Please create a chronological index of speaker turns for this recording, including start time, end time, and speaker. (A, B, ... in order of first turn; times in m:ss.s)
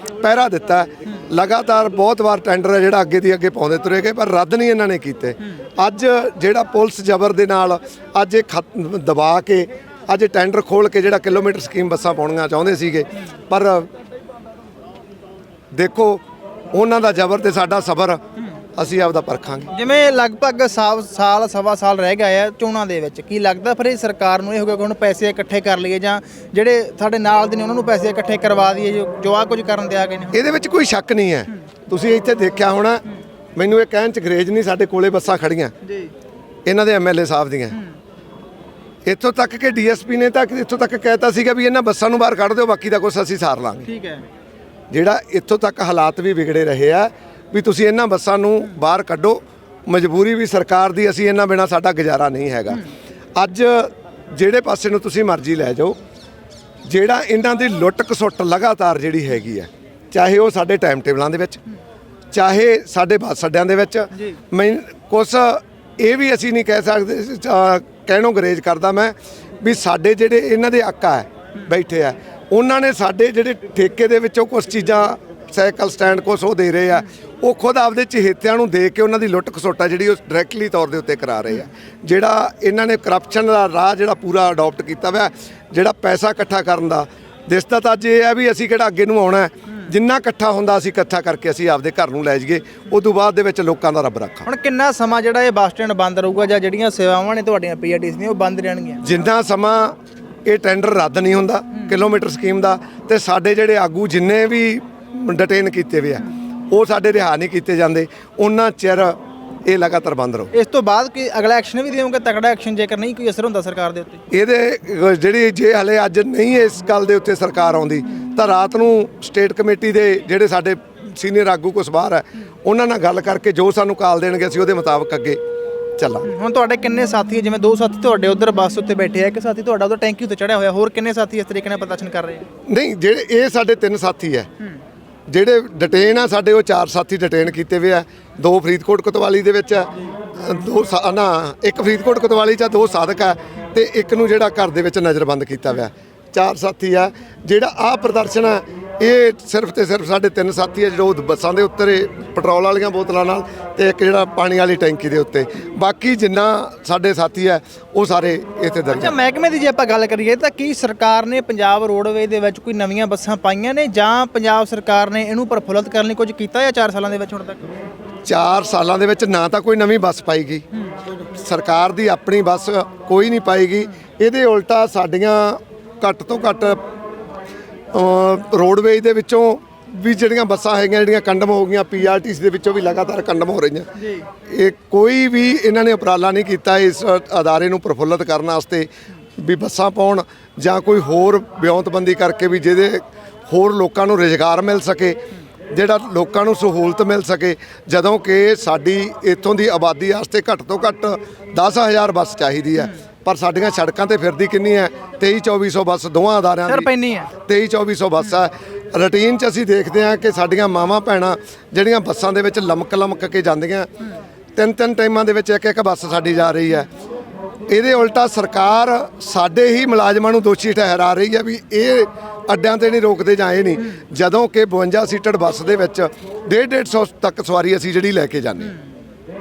0:00.2-0:13.9 A
0:15.7-0:18.2 A
0:18.8-0:19.7 A
0:19.7-0:30.5 B
0:30.3-0:33.0 A
0:33.6-0:35.7 A
0:35.8-0:36.1 B
0:36.7-0:37.8 A
0:39.1-0:43.9 A
0:43.9-0:44.2 B
0:44.9-0:52.8 A
0:53.4-0:56.0 A
0:56.8-1:01.6 A
1:02.3-1:34.5 A
1:34.5-1:39.0 B
1:39.0-1:50.5 A
1:50.5-1:54.2 B
1:54.3-2:05.4 A
2:06.0-2:06.3 A
2:06.3-2:12.5 B
2:12.7-2:14.5 A
2:15.3-2:39.2 A
2:38.9-2:47.7 B
2:48.3-2:50.6 A
2:51.4-2:56.8 A
2:57.9-3:03.9 A
3:04.0-3:04.2 B
3:04.5-3:15.2 A
3:15.7-3:26.9 A
3:26.7-3:27.3 B
3:27.5-3:33.9 A
3:34.6-3:36.9 A
3:37.7-3:48.8 A